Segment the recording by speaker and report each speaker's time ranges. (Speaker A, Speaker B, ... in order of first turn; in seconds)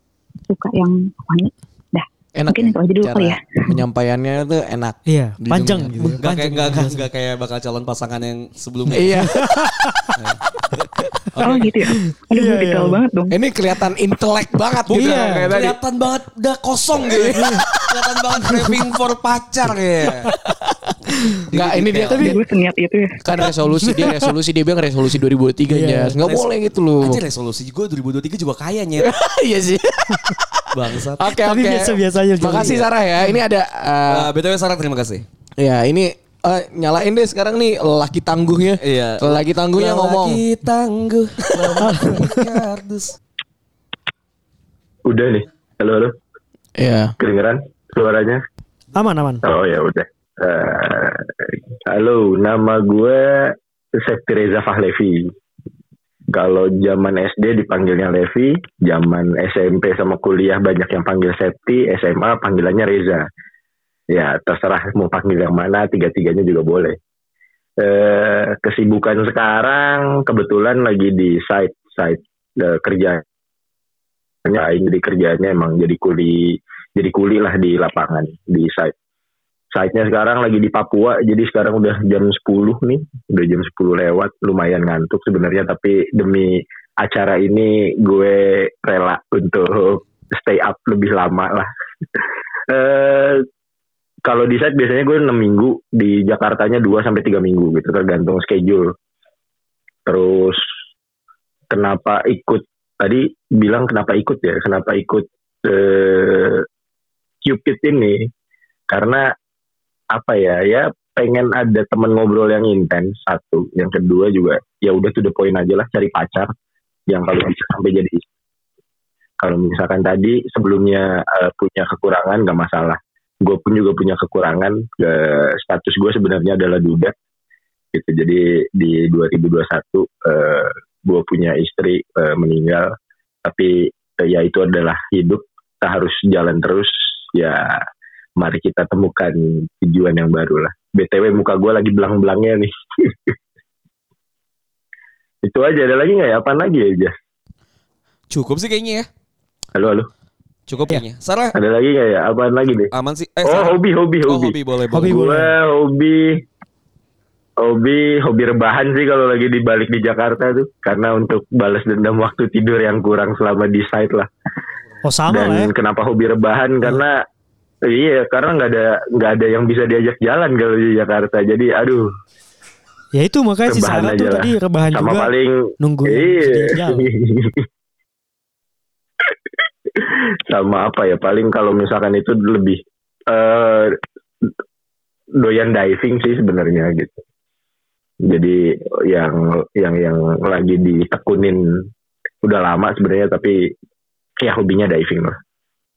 Speaker A: 0.5-3.8, 11.4-13.4, 22.2-23.2
Speaker B: 2.4-6.2, 8.9-9.4, 13.3-15.8, 17.1-17.6, 21.5-22.4, 23.2-27.2, 29.0-34.3, 35.6-40.4, 46.8-47.1
Speaker C: 5.1-7.1, 9.3-10.1, 12.3-13.0, 14.9-15.5, 23.8-24.2, 25.7-26.1, 31.4-32.9, 41.8-42.4, 49.0-49.4, 154.9-155.5, 165.0-165.7, 173.1-177.1
Speaker D: 6.2-9.3, 10.2-11.8, 14.9-20.3, 21.5-22.3, 26.2-26.5, 27.0-29.1, 30.7-31.3, 34.1-35.2, 38.8-43.2, 148.3-149.1, 150.7-151.6, 152.9-155.2
Speaker E: 45.1-46.2, 47.2-48.4, 49.4-51.3, 51.9-55.3, 56.3-63.2, 64.1-67.0, 67.8-73.2, 74.5-78.9, 79.7-91.7, 92.7-93.5, 94.3-98.9, 100.1-100.6, 101.7-106.7, 107.4-108.3, 108.9-109.3, 110.1-116.5, 117.1-118.2, 119.4-127.1, 127.9-132.9, 133.4-137.7, 138.4-143.3, 145.4-147.1, 149.8-150.1, 151.5-152.9, 153.4-156.4, 157.6-164.3, 165.3-167.2, 167.9-172.1, 173.7-177.7, 180.0-184.0, 185.4-187.2, 188.2-191.6, 192.4-193.6, 194.4-195.4